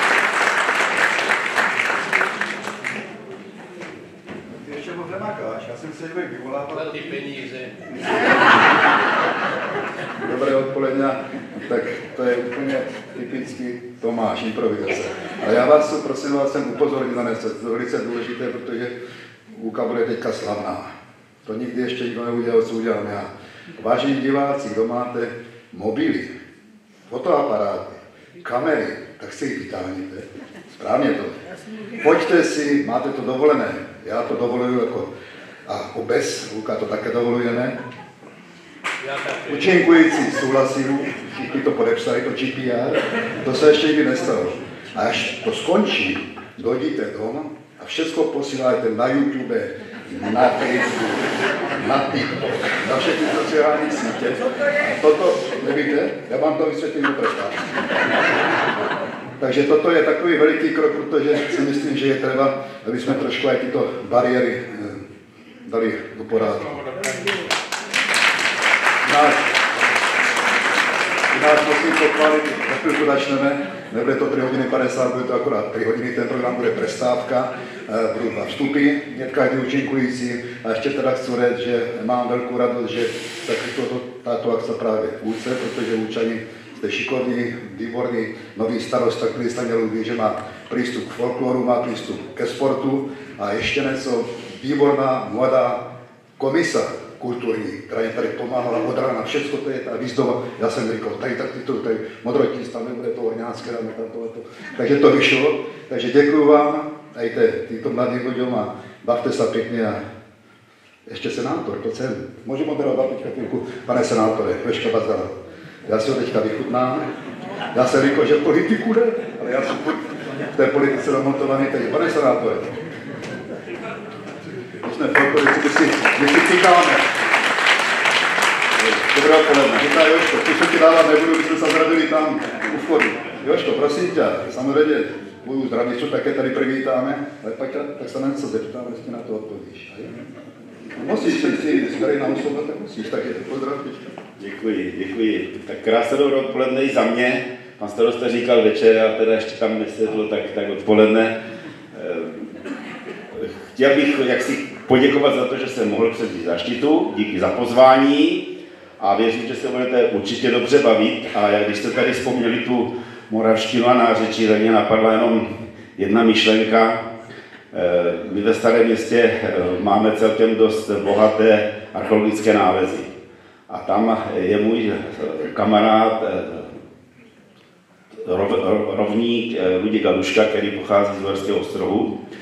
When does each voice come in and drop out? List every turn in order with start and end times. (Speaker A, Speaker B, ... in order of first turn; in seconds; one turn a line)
Speaker A: 4.6-6.9
Speaker B: 6.7-7.7
Speaker A: 10.2-18.9
Speaker A: 19.5-20.9
Speaker A: 21.5-26.4
Speaker A: 27.1-31.4
Speaker A: 32.0-35.1
Speaker A: 35.7-37.8
Speaker B: 39.0-39.7
Speaker A: 39.5-57.6
Speaker A: 59.4-65.0
Speaker A: 65.7-66.8
Speaker B: 66.4-67.3
Speaker A: 69.1-69.4
Speaker A: 71.3-95.8
Speaker A: 96.4-110.0
Speaker A: 111.1-115.3
Speaker A: 115.9-117.1
Speaker A: 117.7-122.8
Speaker A: 124.8-127.0
Speaker A: 128.8-140.1
Speaker A: 141.0-144.2
Speaker C: 144.4-151.3
Speaker C: 151.9-152.5
Speaker C: 153.3-158.4
Speaker C: 159.0-167.0
Speaker C: 167.7-173.1
Speaker C: 173.7-176.8
Speaker C: 178.2-182.2